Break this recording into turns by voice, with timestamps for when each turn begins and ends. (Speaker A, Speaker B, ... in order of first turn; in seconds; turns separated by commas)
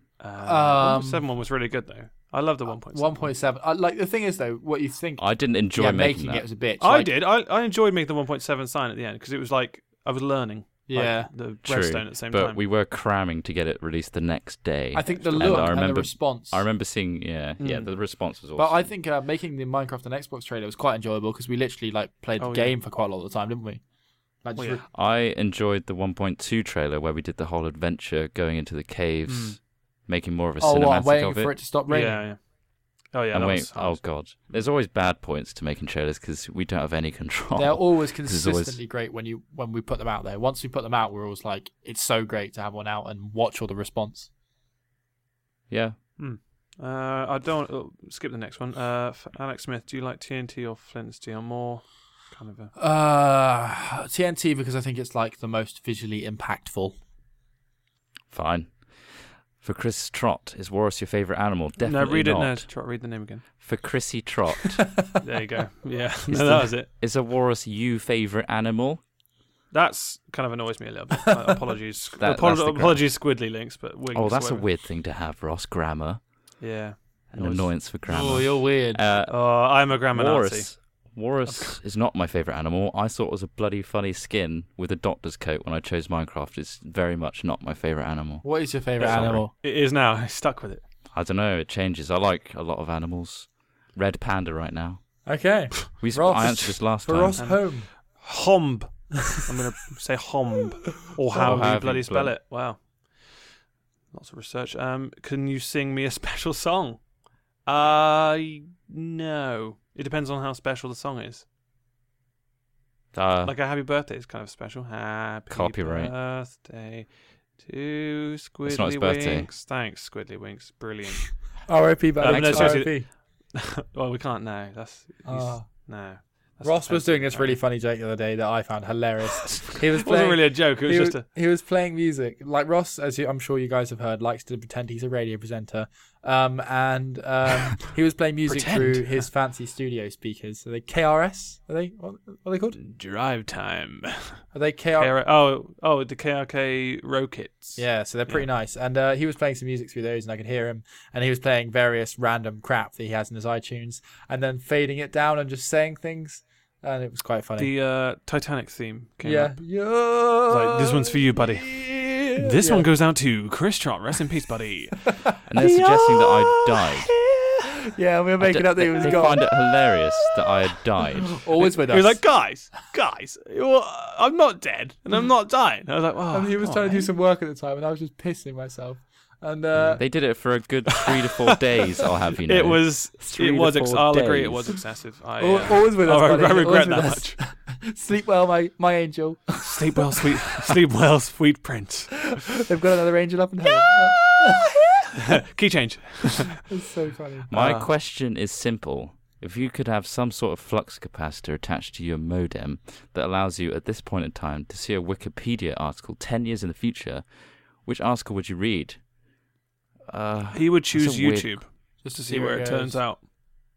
Speaker A: 0.2-3.3, Speaker B: 0.4-1.2, Speaker B: 2.9-7.1, Speaker C: 5.2-6.4, Speaker A: 6.8-12.6, Speaker B: 10.9-11.3, Speaker C: 11.6-18.9, Speaker B: 14.9-16.6, Speaker A: 15.1-15.7, Speaker A: 17.6-17.9, Speaker B: 18.6-23.8, Speaker A: 22.4-22.7, Speaker B: 24.4-24.8, Speaker A: 24.6-24.8, Speaker C: 24.9-31.5, Speaker B: 30.6-32.2, Speaker A: 31.9-34.6, Speaker C: 33.3-38.8, Speaker B: 37.5-44.3, Speaker C: 45.7-46.0, Speaker A: 46.2-52.7, Speaker B: 52.8-56.9, Speaker C: 58.3-58.9, Speaker C: 59.6-62.7, Speaker A: 61.8-63.4, Speaker C: 63.6-64.9, Speaker A: 65.2-66.9, Speaker C: 66.3-69.0, Speaker A: 69.7-74.7, Speaker C: 72.2-73.1, Speaker C: 74.1-76.2, Speaker A: 76.6-77.7, Speaker C: 77.3-79.6, Speaker B: 78.0-79.0, Speaker A: 79.3-80.8, Speaker C: 80.1-88.5, Speaker A: 81.5-81.8, Speaker B: 88.4-89.5, Speaker C: 89.0-89.4, Speaker A: 89.0-90.8, Speaker C: 91.1-95.2, Speaker B: 95.2-97.9, Speaker C: 96.0-97.4, Speaker A: 97.4-103.5, Speaker B: 101.3-101.6, Speaker C: 101.3-102.3, Speaker A: 104.1-107.0, Speaker A: 107.6-111.4, Speaker C: 113.1-113.5, Speaker A: 113.4-121.6, Speaker C: 115.5-116.1, Speaker C: 118.6-119.5, Speaker B: 121.7-123.1, Speaker C: 122.2-122.9, Speaker A: 122.2-127.5, Speaker B: 125.2-125.9, Speaker B: 126.6-142.8, Speaker A: 129.4-131.2, Speaker A: 138.5-139.3, Speaker A: 142.8-144.4, Speaker B: 144.5-145.1, Speaker A: 145.0-148.4, Speaker B: 147.8-157.7, Speaker A: 157.6-159.6, Speaker B: 159.2-162.9, Speaker A: 160.5-167.7, Speaker C: 165.5-167.1, Speaker B: 167.7-169.4, Speaker C: 168.4-171.4, Speaker A: 169.0-169.4, Speaker B: 171.3-172.3, Speaker A: 171.6-177.1, Speaker B: 176.3-180.0, Speaker C: 179.8-184.8, Speaker A: 180.9-187.4, Speaker B: 185.4-190.8, Speaker A: 189.6-192.4, Speaker B: 192.2-194.7, Speaker A: 193.8-196.6, Speaker B: 196.7-197.8, Speaker C: 197.5-207.2, Speaker C: 207.8-209.0, Speaker C: 210.1-211.6, Speaker A: 210.5-213.3, Speaker B: 212.0-213.0